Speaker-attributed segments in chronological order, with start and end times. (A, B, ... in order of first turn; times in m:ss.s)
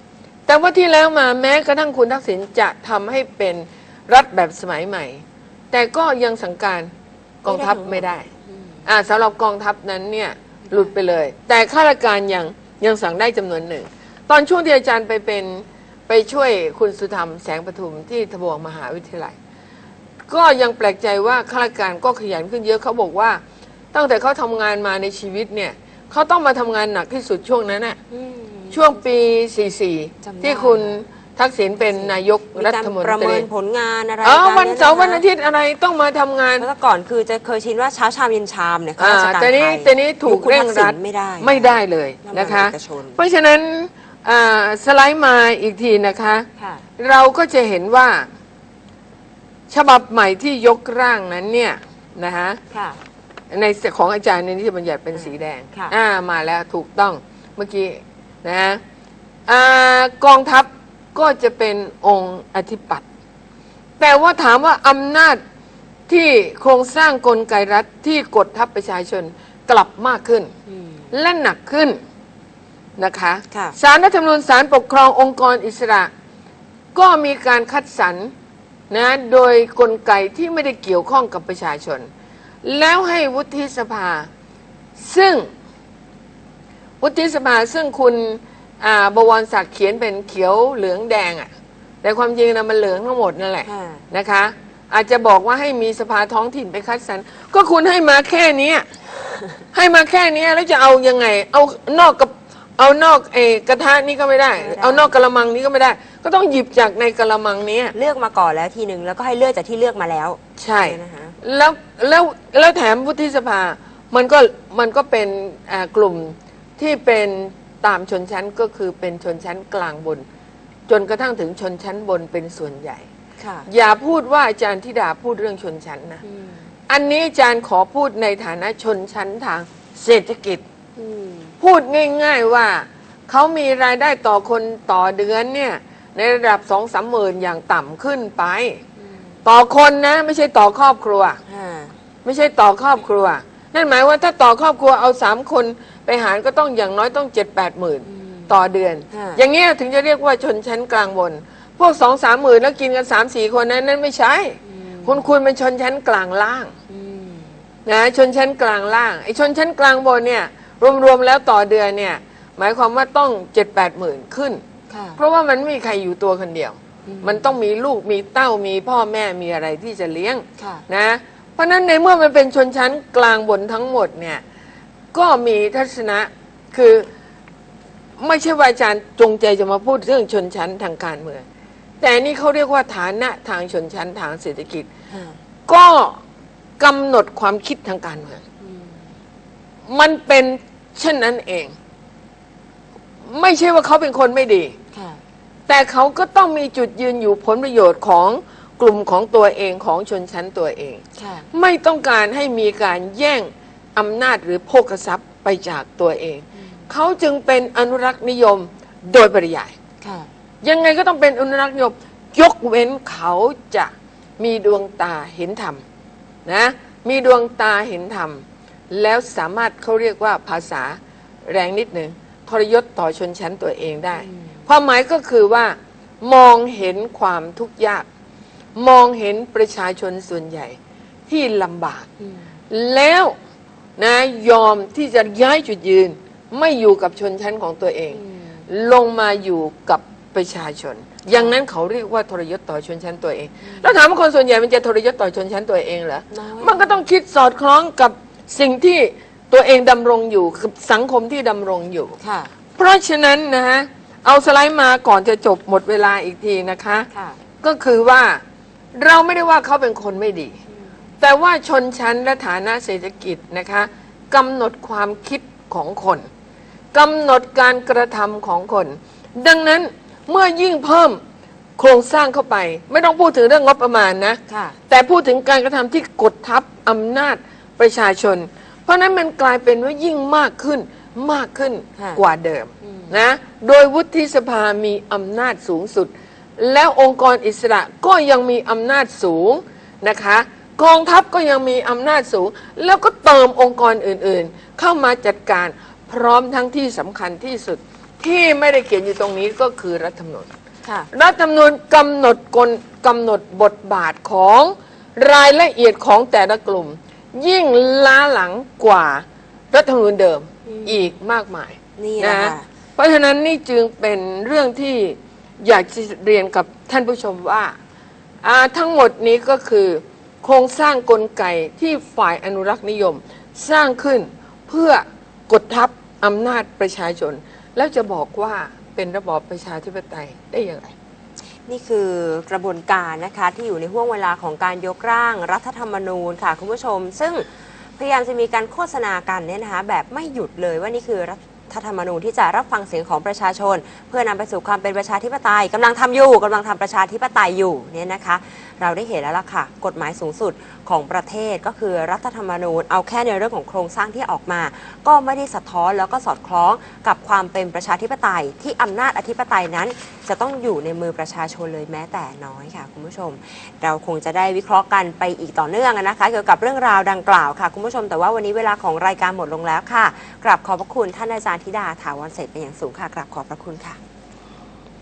0:00.5-0:06.9 A
0:07.4-0:08.3 A
0:07.5-0:08.8 B
0:08.9-0:19.4 A
0:10.7-0:10.9 B
0:20.3-0:23.4 A
0:23.9-0:28.0 A
0:28.1-0:28.9 B
0:28.7-0:33.5 A
0:30.2-0:31.0 B
0:31.9-0:35.2 B
0:34.2-0:36.7 A
0:36.6-0:43.2 B
0:39.0-0:46.5 A
0:46.6-0:46.8 B
0:47.0-0:48.3 A
0:49.7-0:52.6 A
0:52.7-0:53.0 B
0:53.5-0:58.8 A
0:55.1-0:55.9 B
0:59.5-1:03.0 A
1:04.0-1:05.4 A
1:06.1-1:10.5 A
1:10.7-1:11.1 B
1:11.1-1:12.0 A
1:13.0-1:16.1 A
1:13.5-1:13.8 B
1:17.0-1:18.3 A
1:18.9-1:22.1 A
1:22.6-1:24.3 A
1:25.0-1:25.5 A
1:27.0-1:31.5 A
1:32.0-1:38.9 A
1:33.6-1:34.0 B
1:39.7-1:47.9 A
1:44.6-1:45.1 B
1:47.9-1:51.4 B
1:50.6-2:00.2 A
2:00.9-2:03.1 A
2:03.4-2:03.7 B
2:03.7-2:06.2 A
2:06.2-2:06.6 B
2:06.9-2:10.6 A
2:11.0-2:11.5 B
2:11.6-2:18.8 A
2:19.0-2:19.3 B
2:19.4-2:21.4 A
2:21.5-2:22.0 B
2:22.2-2:36.7 A
2:28.1-2:28.6 B
2:29.1-2:29.4 B
2:34.6-2:35.3 B
2:36.9-2:37.6 B
2:37.8-2:44.6 A
2:44.9-2:45.2 B
2:45.2-2:54.4 A
2:47.1-2:47.5 B
2:50.6-2:50.8 B
2:55.1-2:57.1 A
2:58.2-3:01.4 A
3:02.0-3:04.9 A
3:05.1-3:05.4 B
3:05.7-3:06.2 A
3:06.8-3:08.4 A
3:08.6-3:09.1 B
3:09.9-3:11.7 A
3:13.2-3:14.8 A
3:14.9-3:15.2 B
3:15.7-3:29.8 A
3:21.2-3:21.5 B
3:30.0-3:30.3 B
3:30.6-3:35.8 A
3:36.5-3:48.1 A
3:44.2-3:44.6 B
3:48.8-3:50.8 A
3:51.3-3:52.1 A
3:52.2-3:52.5 B
3:52.7-3:53.4 A
3:54.0-4:12.2 A
3:58.1-3:58.6 B
4:01.3-4:01.6 B
4:03.7-4:03.9 B
4:06.3-4:07.0 B
4:12.2-4:12.5 B
4:12.8-4:17.1 A
4:17.1-4:17.4 B
4:17.6-4:18.4 A
4:19.0-4:20.6 A
4:21.2-4:26.3 A
4:26.9-4:31.2 A
4:31.8-5:00.5 A
4:34.5-4:34.8 B
4:42.8-4:43.2 B
5:01.1-5:17.8 A
5:10.7-5:11.1 B
5:12.0-5:12.7 B
5:18.4-5:30.9 A
5:31.7-5:37.4 B
5:38.0-6:14.0 B